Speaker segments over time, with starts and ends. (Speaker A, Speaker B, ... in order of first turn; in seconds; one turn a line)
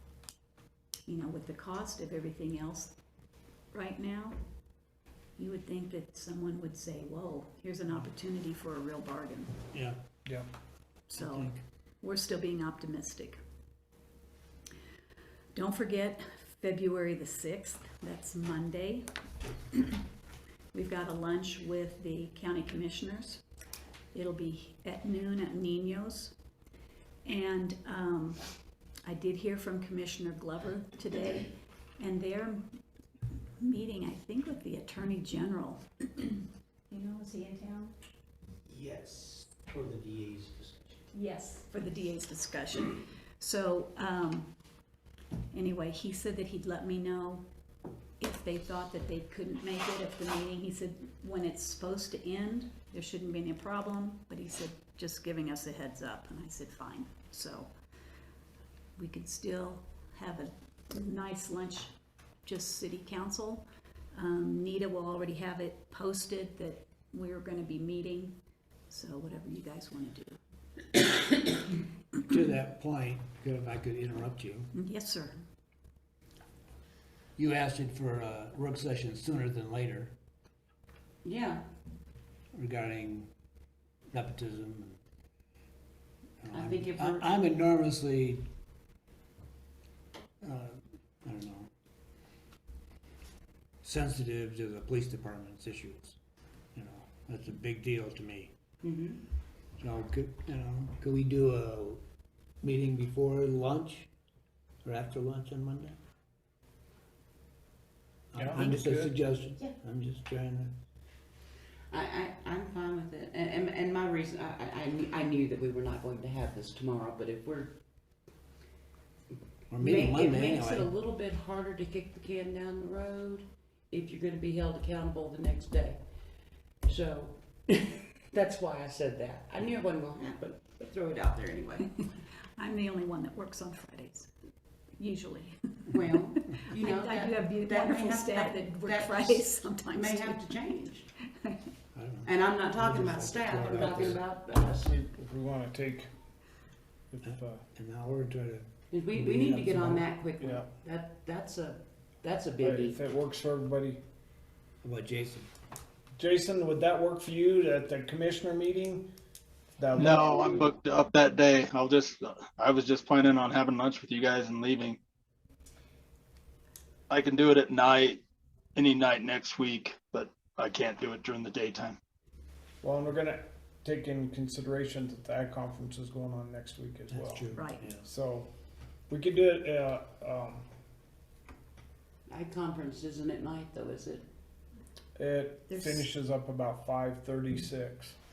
Speaker A: 1.1-3.0
Speaker A: 3.7-4.4
Speaker A: 5.4-9.5
Speaker B: 9.7-10.0
Speaker A: 11.1-13.4
Speaker B: 11.2-11.6
Speaker A: 15.5-19.1
Speaker A: 19.7-20.0
Speaker A: 20.7-23.4
Speaker A: 24.1-26.4
Speaker A: 27.2-28.4
Speaker A: 29.0-32.8
Speaker A: 33.6-38.0
Speaker C: 39.0-40.9
Speaker A: 41.1-44.5
Speaker A: 45.5-47.5
Speaker A: 48.2-57.7
Speaker A: 59.0-61.9
Speaker A: 62.4-68.4
Speaker A: 68.9-70.4
Speaker B: 72.3-74.7
Speaker A: 74.7-75.4
Speaker B: 77.4-80.2
Speaker D: 81.2-81.6
Speaker B: 82.5-83.3
Speaker B: 84.1-85.0
Speaker B: 86.4-88.5
Speaker D: 86.5-87.4
Speaker B: 90.4-91.7
Speaker B: 93.8-96.2
Speaker B: 96.8-98.5
Speaker D: 98.8-99.2
Speaker B: 99.8-102.0
Speaker B: 102.6-104.1
Speaker B: 104.8-106.0
Speaker B: 108.3-110.8
Speaker E: 108.4-109.2
Speaker D: 111.9-117.8
Speaker B: 119.7-120.9
Speaker D: 119.8-126.0
Speaker D: 126.8-131.9
Speaker A: 132.6-134.3
Speaker A: 135.0-140.4
Speaker D: 135.9-141.1
Speaker A: 141.4-141.7
Speaker B: 141.9-144.2
Speaker D: 142.2-144.9
Speaker E: 143.7-144.1
Speaker E: 144.7-146.1
Speaker E: 147.1-147.7
Speaker B: 147.2-150.1
Speaker D: 148.9-153.0
Speaker E: 150.4-150.7
Speaker E: 152.6-154.0
Speaker B: 154.8-155.5
Speaker E: 156.2-159.1
Speaker E: 159.8-160.8
Speaker F: 159.9-165.0
Speaker F: 167.1-168.2
Speaker F: 168.8-172.0
Speaker E: 172.8-177.5
Speaker B: 177.1-178.1
Speaker A: 177.6-177.9
Speaker E: 178.0-178.5
Speaker E: 179.1-180.7
Speaker D: 182.3-184.3
Speaker E: 185.2-188.2
Speaker A: 185.7-186.1